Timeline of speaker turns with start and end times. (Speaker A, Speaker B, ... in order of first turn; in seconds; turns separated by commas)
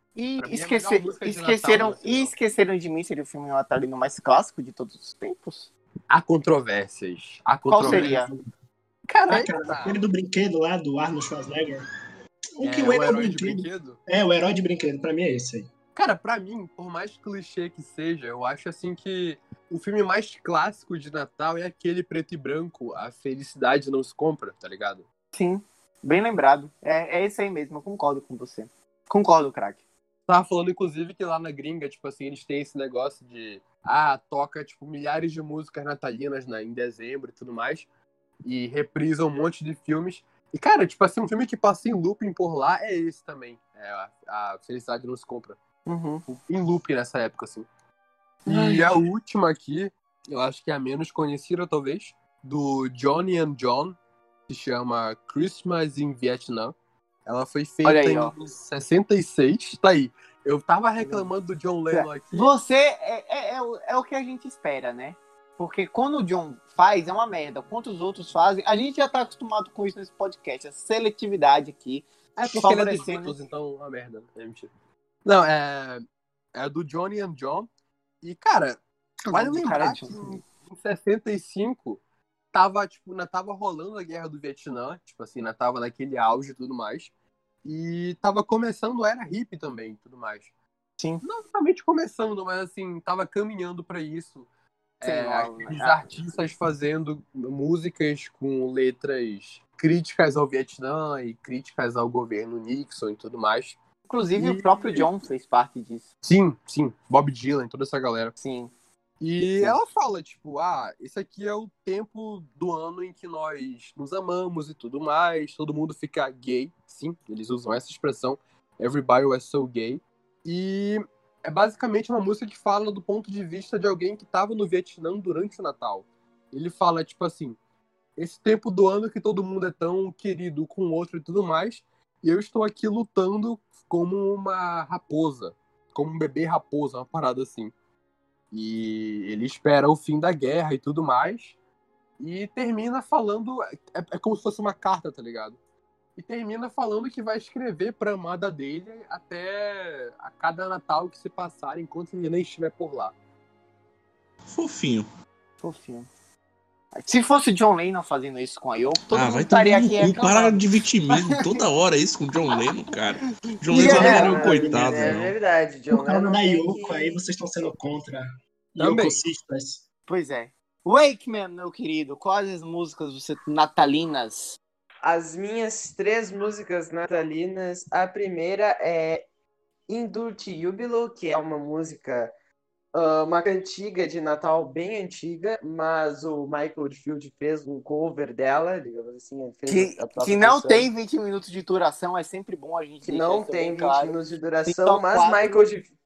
Speaker A: 0.1-5.7, Speaker B: 0.4-2.3, Speaker B: 6.1-8.2, Speaker A: 7.6-8.3, Speaker C: 7.8-8.4, Speaker A: 9.1-9.4, Speaker C: 9.3-11.8, Speaker B: 9.3-10.0, Speaker C: 12.6-15.7, Speaker B: 12.6-14.0, Speaker B: 15.9-25.0, Speaker A: 25.3-29.8, Speaker B: 30.3-37.9, Speaker B: 38.4-45.6, Speaker A: 45.9-46.2, Speaker B: 46.3-47.6, Speaker A: 48.4-49.0, Speaker B: 48.5-54.0, Speaker B: 54.5-56.7, Speaker B: 57.2-62.5, Speaker A: 57.8-58.3, Speaker A: 61.0-61.3, Speaker A: 61.9-73.3, Speaker B: 72.4-74.7, Speaker B: 75.2-77.7, Speaker B: 78.2-78.8, Speaker A: 79.2-80.4, Speaker B: 79.3-82.0, Speaker B: 82.5-87.1, Speaker B: 87.6-90.5, Speaker A: 91.0-91.2, Speaker B: 91.2-94.5, Speaker B: 95.0-103.8, Speaker A: 95.0-96.3, Speaker A: 104.1-106.1, Speaker B: 104.3-105.1, Speaker B: 106.2-108.4, Speaker A: 108.4-108.7, Speaker B: 109.2-127.6, Speaker B: 128.2-137.7, Speaker B: 138.5-141.6, Speaker B: 142.2-145.6, Speaker B: 146.2-153.1, Speaker D: 154.4-155.1, Speaker A: 155.6-156.1, Speaker A: 157.0-160.6, Speaker D: 159.1-165.3, Speaker A: 163.7-164.4, Speaker C: 163.7-165.2, Speaker E: 163.9-167.2, Speaker C: 165.9-169.8, Speaker B: 168.8-169.2, Speaker A: 170.1-174.6, Speaker E: 175.0-179.2, Speaker E: 179.9-182.3, Speaker E: 182.9-190.9, Speaker A: 189.7-195.7, Speaker E: 193.0-195.9